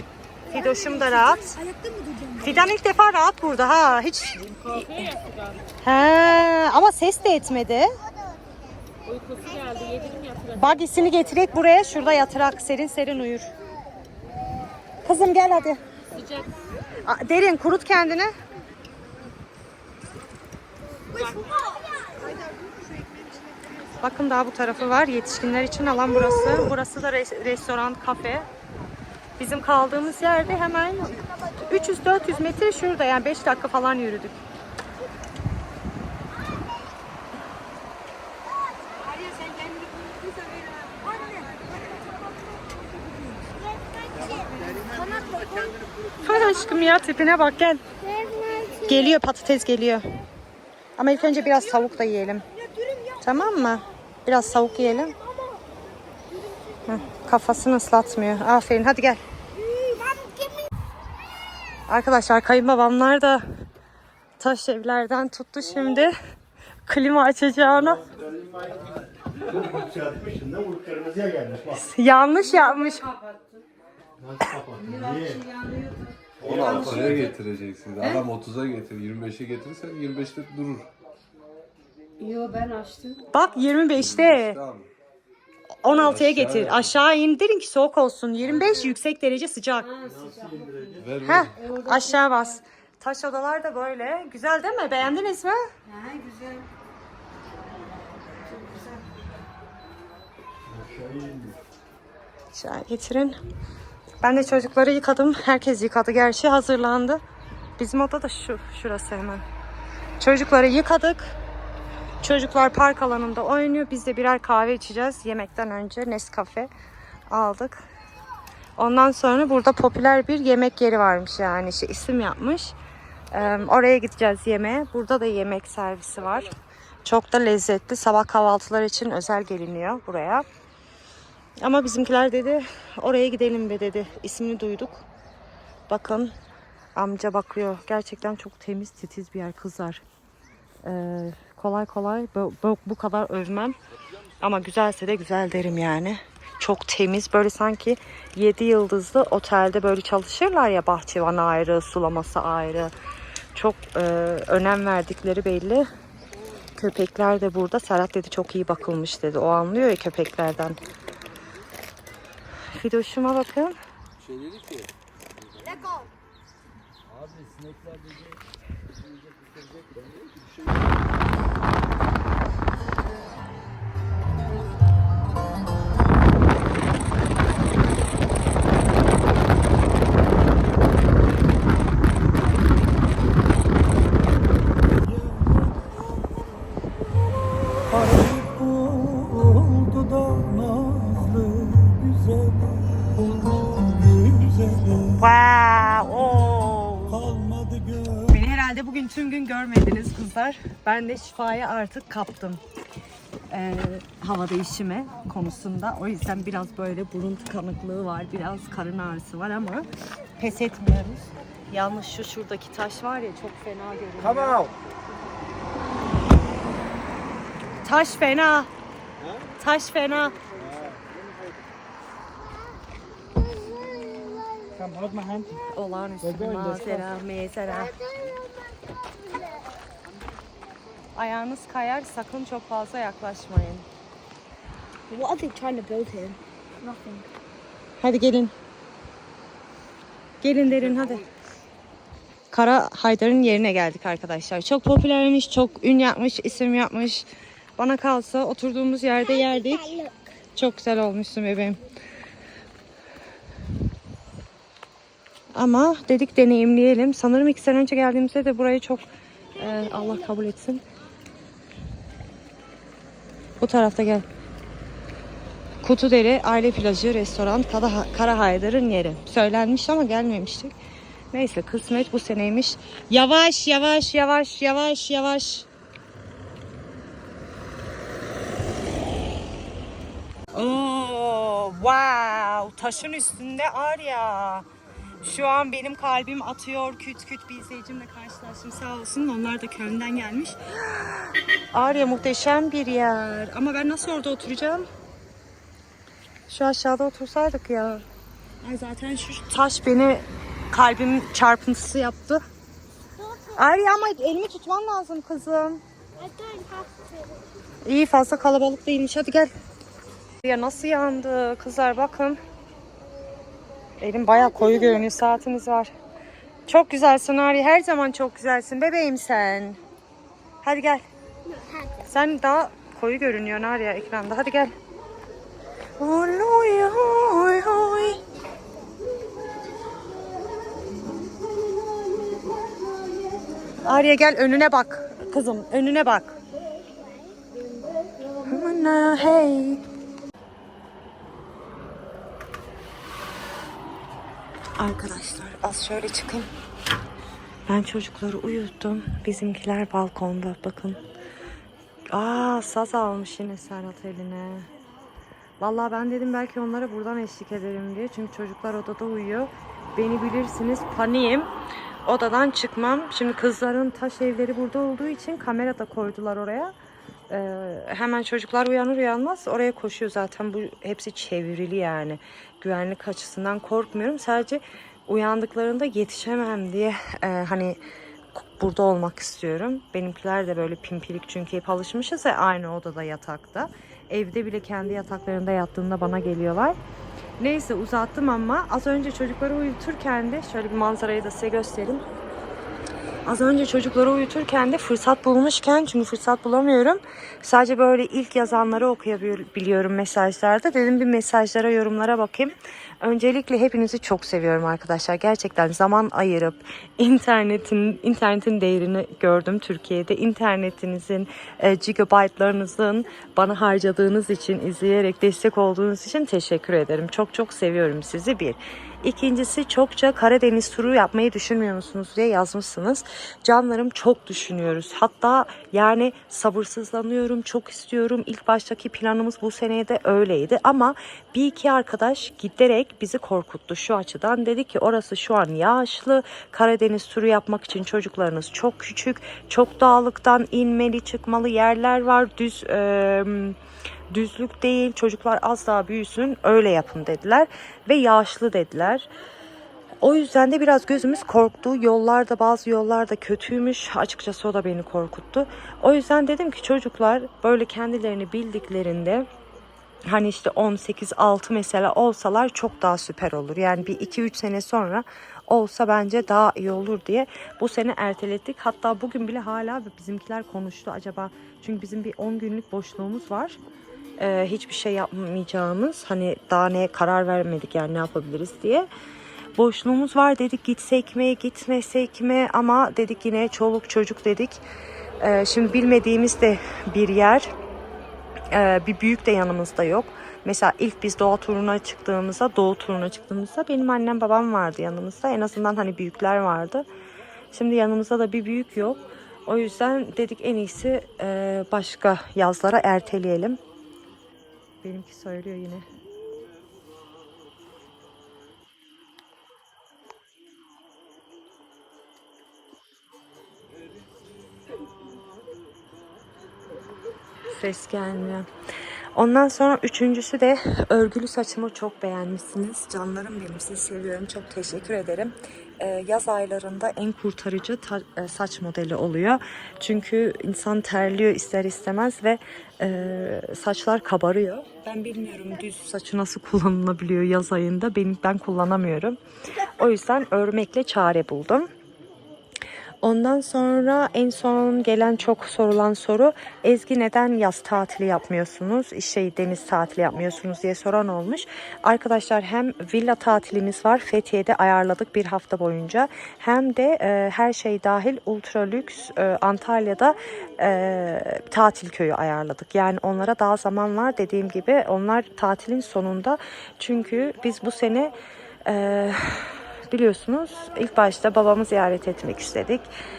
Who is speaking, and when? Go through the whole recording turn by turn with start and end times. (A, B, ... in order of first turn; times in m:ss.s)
0:00.5-0:01.6 A
0:01.6-0:02.4 B
0:02.4-0:04.9 A
0:04.7-0:05.6 C
0:05.8-0:07.9 A
0:09.1-0:10.8 C
0:10.6-0:13.5 A
0:15.0-0:15.8 A
0:16.2-0:16.5 C
0:17.0-0:18.3 A
0:21.3-0:22.4 D
0:24.0-0:28.5 A
0:29.4-0:34.4 A
0:39.4-0:40.0 B
0:40.5-0:41.6 B
0:44.2-0:44.7 D
0:44.3-0:46.2 E
0:46.2-0:47.8 A
0:48.0-0:48.9 D
0:48.8-0:50.1 A
0:51.0-0:52.4 A
0:53.2-0:55.2 A
0:56.9-0:59.2 A
0:59.7-1:00.6 D
1:01.9-1:03.4 A
1:04.4-1:06.2 A
1:06.9-1:08.0 A
1:08.1-1:08.9 E
1:09.6-1:11.7 E
1:11.7-1:13.1 A
1:13.2-1:13.6 B
1:14.2-1:15.4 E
1:14.8-1:16.2 B
1:16.4-1:17.2 E
1:16.4-1:20.9 F
1:22.2-1:23.3 B
1:23.3-1:24.6 A
1:23.9-1:24.9 F
1:25.8-1:29.9 A
1:26.0-1:27.0 F
1:29.9-1:31.0 B
1:30.1-1:31.1 E
1:31.0-1:31.6 F
1:31.2-1:35.6 A
1:31.6-1:32.2 B
1:35.9-1:36.7 B
1:40.7-1:41.6 E
1:42.5-1:43.4 A
1:44.2-1:47.2 A
1:47.8-1:49.4 A
1:50.2-1:51.4 A
1:52.2-1:56.7 A
1:57.3-1:57.8 A
1:58.8-2:02.8 A
2:03.3-2:06.5 A
2:07.0-2:10.4 A
2:11.6-2:15.0 A
2:15.9-2:16.3 A
2:17.0-2:20.0 A
2:20.8-2:23.8 A
2:24.4-2:32.9 A
2:33.6-2:35.9 A
2:36.8-2:40.8 A
2:42.8-2:43.8 A
2:44.2-2:44.9 F
2:45.6-2:45.8 F
2:47.4-2:47.9 F
3:07.9-3:15.0 E
3:15.0-3:17.3 A
3:17.3-3:18.2 E
3:18.2-3:22.6 A
3:23.5-3:29.9 A
3:30.4-3:34.7 A
3:37.8-3:38.7 A
3:39.6-3:40.4 A
3:44.8-3:45.5 E
3:45.7-3:48.0 A
3:46.4-3:46.9 E
3:48.0-3:49.5 D
3:51.2-3:53.9 A
3:55.1-3:57.3 D
3:58.0-3:58.5 A
4:00.4-4:01.3 A
4:02.5-4:11.8 A
4:15.6-4:19.0 A
4:19.6-4:20.8 A
4:23.6-4:24.3 A
4:25.8-4:30.7 A
4:31.3-4:35.7 A
4:40.5-4:44.6 A
4:45.2-4:50.6 A
4:51.7-4:54.9 A
4:56.5-4:58.0 A
4:58.6-5:02.4 A
5:03.2-5:03.6 D
5:03.6-5:05.8 A
5:06.2-5:07.1 D
5:07.8-5:09.5 A
5:10.4-5:12.4 A
5:14.0-5:15.9 A
5:16.7-5:19.8 A
5:20.6-5:21.0 A
5:22.0-5:24.7 A
5:26.0-5:28.2 A
5:33.8-5:36.4 A
5:38.4-5:39.8 A
5:44.8-5:46.5 A
5:47.7-5:51.0 A
5:52.1-5:54.7 A
5:55.6-6:01.5 A
6:02.0-6:06.7 A
6:07.3-6:17.8 A
6:18.4-6:26.8 A
6:27.4-6:32.0 A
6:33.3-7:23.6 A
7:24.1-7:29.1 A
7:30.0-7:39.3 A
7:40.1-7:53.6 A
7:54.2-7:58.9 A
7:59.6-8:04.6 A
8:05.2-8:07.5 A
8:08.5-8:16.9 A
8:17.5-8:23.6 A
8:24.8-8:25.9 A
8:37.5-8:38.5 A
8:39.2-8:59.2 A
8:59.8-9:01.7 A
9:03.0-9:28.1 A
9:28.7-9:32.9 A